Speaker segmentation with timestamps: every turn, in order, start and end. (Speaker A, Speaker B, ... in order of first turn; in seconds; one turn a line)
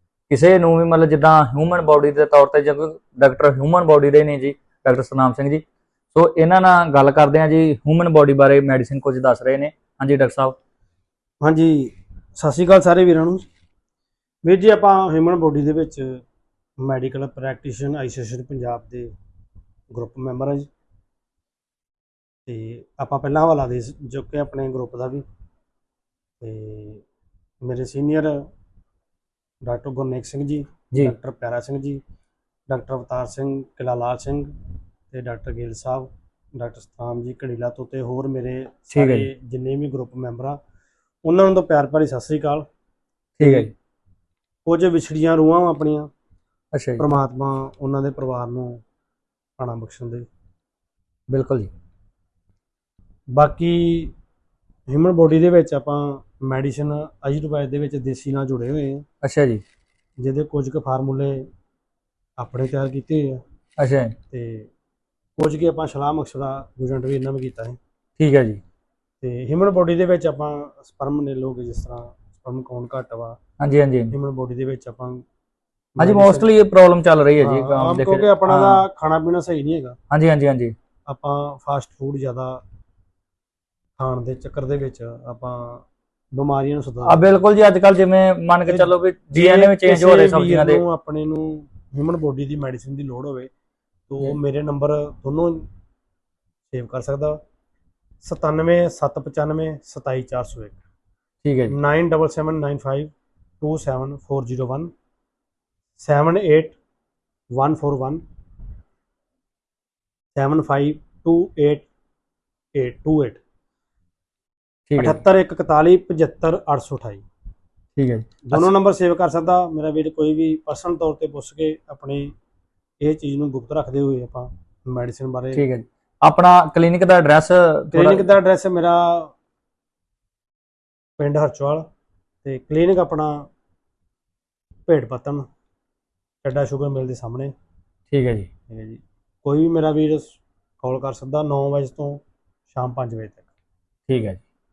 Speaker A: 0.3-10.6
Speaker B: 11.4-13.5
Speaker B: 14.4-16.2
Speaker B: 16.8-19.1
Speaker B: 19.9-20.7
Speaker B: 22.5-25.2
Speaker B: 26.4-27.0
Speaker B: 27.6-28.5
Speaker B: 29.6-32.0
Speaker B: 32.7-34.5
Speaker B: 35.1-40.6
Speaker A: 38.9-39.3
Speaker B: 41.2-42.7
Speaker A: 43.4-43.7
Speaker B: 43.4-43.7
Speaker B: 44.7-46.1
Speaker A: 46.7-47.0
Speaker B: 47.0-48.8
Speaker B: 49.6-50.3
Speaker A: 51.3-51.7
Speaker B: 53.4-54.1
Speaker B: 54.9-59.0
Speaker A: 59.2-59.6
Speaker B: 60.2-61.5
Speaker B: 62.4-63.4
Speaker A: 63.8-64.1
Speaker B: 64.3-64.7
Speaker B: 65.4-67.8
Speaker A: 68.2-68.6
Speaker B: 69.2-73.4
Speaker A: 73.6-74.1
Speaker B: 74.1-75.2
Speaker B: 76.0-76.5
Speaker A: 76.0-78.8
Speaker B: 77.4-80.0
Speaker A: 80.1-80.7
Speaker B: 81.1-82.6
Speaker B: 84.0-87.2
Speaker A: 87.0-90.8
Speaker B: 88.7-93.5
Speaker B: 94.1-95.7
Speaker B: 96.7-97.4
Speaker B: 98.2-100.8
Speaker A: 101.4-101.8
Speaker B: 101.7-104.9
Speaker B: 106.0-106.8
Speaker B: 107.5-108.2
Speaker B: 110.3-111.9
Speaker B: 112.7-113.4
Speaker A: 114.9-115.2
Speaker B: 115.0-117.2
Speaker A: 118.0-118.7
Speaker B: 118.5-122.3
Speaker B: 123.0-125.6
Speaker A: 125.5-128.3
Speaker B: 127.9-129.3
Speaker B: 131.2-131.9
Speaker B: 132.4-133.5
Speaker B: 134.9-135.5
Speaker B: 136.4-137.5
Speaker A: 138.1-138.5
Speaker B: 138.7-143.5
Speaker A: 144.1-144.4